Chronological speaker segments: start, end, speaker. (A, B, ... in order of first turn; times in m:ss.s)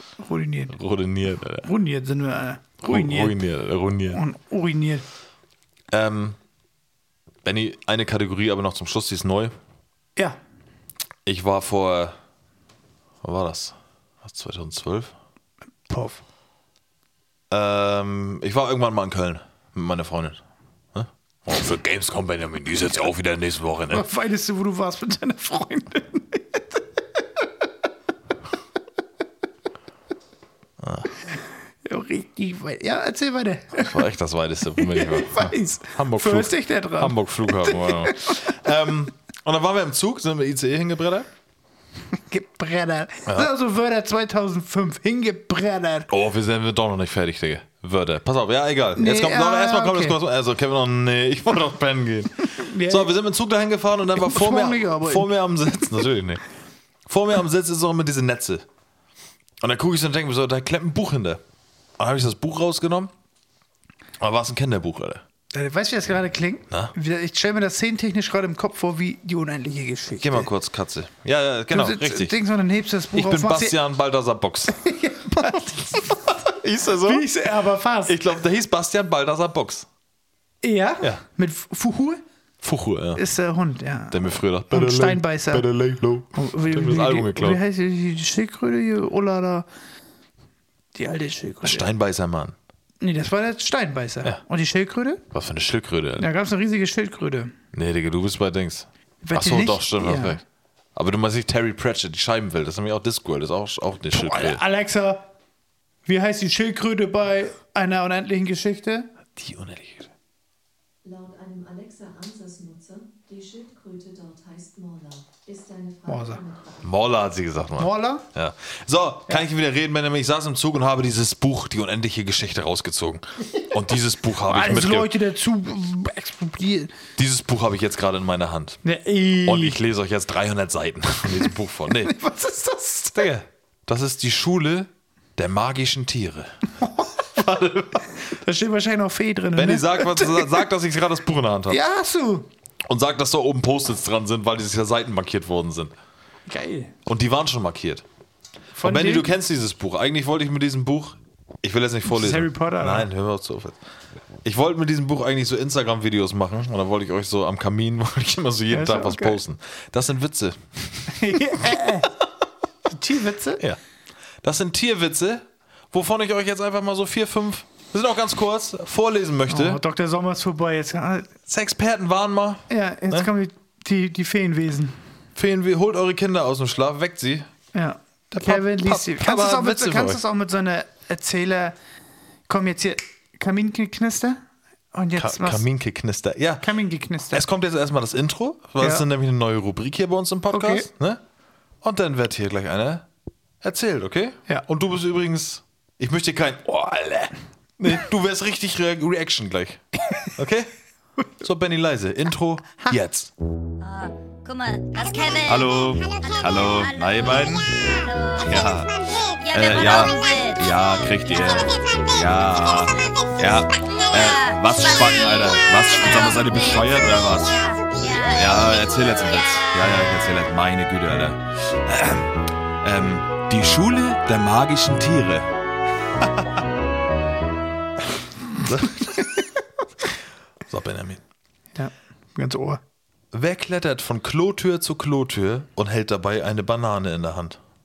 0:00.2-0:00.7 A
0:00.7-0:01.7 B
0:01.6-0:03.4 A
0:02.9-0:04.2 B
0:04.1-0:05.0 A
0:05.9-0:06.4 B
0:07.4-0:09.5 B
0:11.2-0:12.1 B
0:13.2-0:15.1 B
0:15.9-0:16.2 A
0:17.5-0:20.4 B
0:20.9-0:24.0 B
0:23.9-0:26.8 A
0:30.8-0:31.1 B
0:31.8-0:34.1 A
0:33.8-0:41.3 B
0:34.8-0:38.5 A
0:42.2-0:46.1 A
0:46.1-0:56.4 B
0:49.0-0:50.2 A
0:52.4-0:53.1 A
0:54.2-0:55.3 A
0:57.1-0:58.6 B
0:59.6-1:01.4 B
1:02.0-1:03.1 B
1:04.2-1:05.2 B
1:05.5-1:10.5 A
1:10.2-1:12.4 B
1:11.7-1:13.8 A
1:13.1-1:14.8 B
1:14.7-1:16.4 A
1:16.1-1:17.3 B
1:17.0-1:18.2 A
1:18.1-1:19.9 B
1:20.6-1:22.2 A
1:22.6-1:23.2 B
1:23.2-1:25.7 A
1:24.1-1:27.6 B
1:26.3-1:29.6 A
1:30.9-1:31.9 A
1:31.6-1:32.6 B
1:33.0-1:35.2 A
1:35.3-1:36.3 B
1:36.2-1:37.5 A
1:37.7-1:40.4 B
1:39.2-1:40.4 A
1:40.9-1:44.6 B
1:44.1-1:45.3 A
1:46.1-1:49.1 A
1:49.4-1:50.1 B
1:51.0-1:57.2 C
1:56.1-1:56.4 A
1:56.8-2:05.1 B
1:57.8-1:58.2 A
2:04.4-2:06.9 A
2:07.2-2:08.8 B
2:08.8-2:09.8 A
2:09.4-2:12.1 B
2:11.9-2:13.3 A
2:13.1-2:16.6 B
2:17.2-2:18.2 B
2:18.2-2:20.6 A
2:19.5-2:21.8 B
2:21.7-2:22.5 A
2:22.8-2:25.9 B
2:26.5-2:26.9 A
2:27.1-2:28.0 B
2:28.7-2:29.3 A
2:28.8-2:33.8 B
2:32.1-2:33.1 A
2:34.4-2:42.0 B
2:38.7-2:39.4 A
2:41.1-2:42.1 A
2:42.8-2:43.6 A
2:44.4-2:49.8 B
2:49.5-2:51.3 A
2:51.5-2:53.3 B
2:52.7-2:55.0 A
2:55.4-2:57.5 B
2:57.7-3:01.8 A
2:58.3-3:00.2 B
3:02.5-3:05.6 A
3:05.2-3:06.7 B
3:06.6-3:07.4 A
3:07.3-3:11.2 B
3:08.8-3:09.1 A
3:10.5-3:10.9 A
3:11.8-3:13.1 B
3:13.6-3:16.8 B
3:16.8-3:17.3 A
3:17.8-3:20.7 B
3:21.4-3:23.3 B
3:23.8-3:28.7 D
3:25.4-3:27.7 B
3:28.4-3:28.9 B
3:29.4-3:32.0 D
3:29.5-3:37.6 B
3:34.1-3:39.6 D
3:38.3-3:45.5 B
3:48.6-3:49.4 B
3:50.7-3:51.2 B
3:51.7-3:52.8 A
3:53.3-3:57.6 B